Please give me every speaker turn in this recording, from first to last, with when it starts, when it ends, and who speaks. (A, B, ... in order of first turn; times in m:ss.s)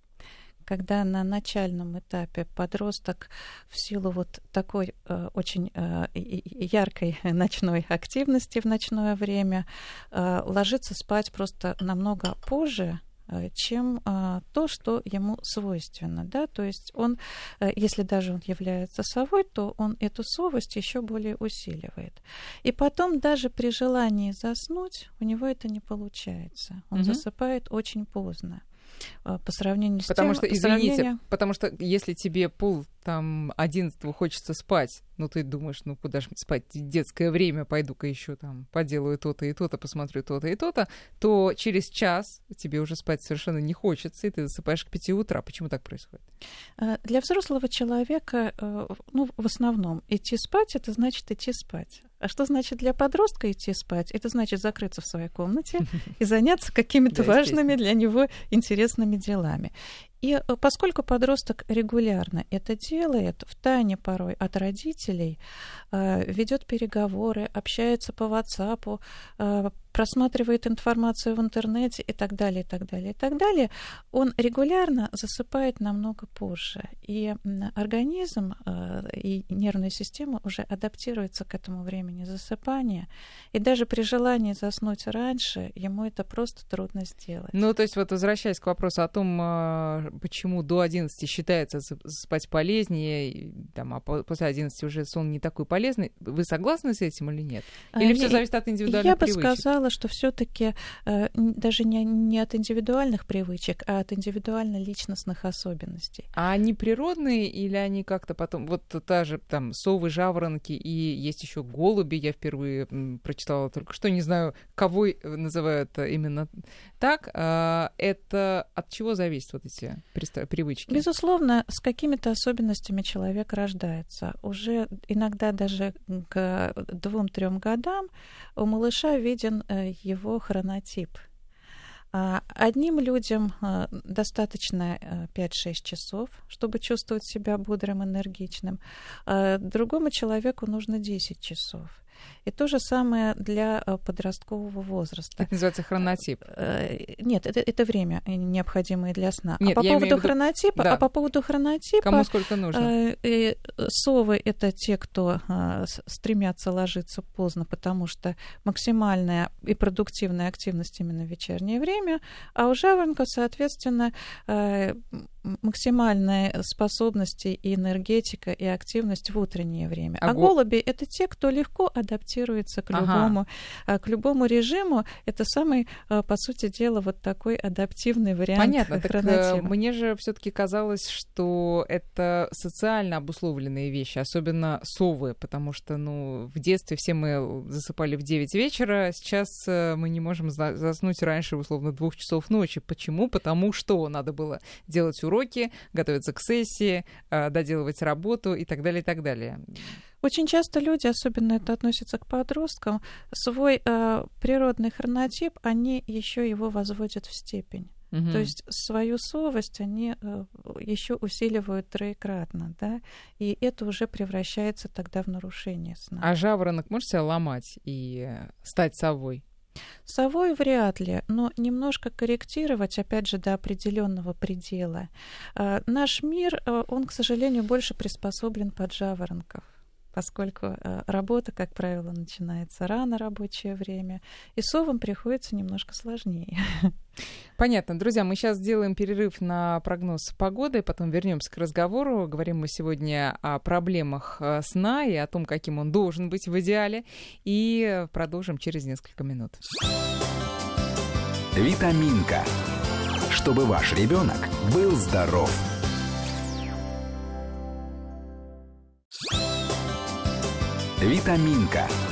0:00.7-0:28.6 A
0:27.0-0:27.2 B
0:29.2-0:31.2 A
0:30.1-0:46.2 B
0:46.8-1:05.4 A
0:57.1-0:57.7 B
1:05.9-1:27.6 A
1:27.5-1:39.6 B
1:38.0-1:46.3 A
1:46.4-2:01.0 B
2:00.9-2:11.2 A
2:12.1-2:25.5 A
2:25.4-2:26.4 B
2:26.4-2:59.7 A
2:29.6-2:31.0 B
2:32.0-2:32.9 B
2:50.2-2:50.5 B
2:52.9-2:53.4 B
2:58.6-3:19.9 B
3:20.2-3:36.3 A
3:28.1-3:28.5 B
3:36.2-3:39.4 B
3:40.1-3:56.9 A
3:57.6-4:09.6 B
4:11.5-4:12.5 C
4:13.3-4:15.6 C
4:21.0-4:21.9 C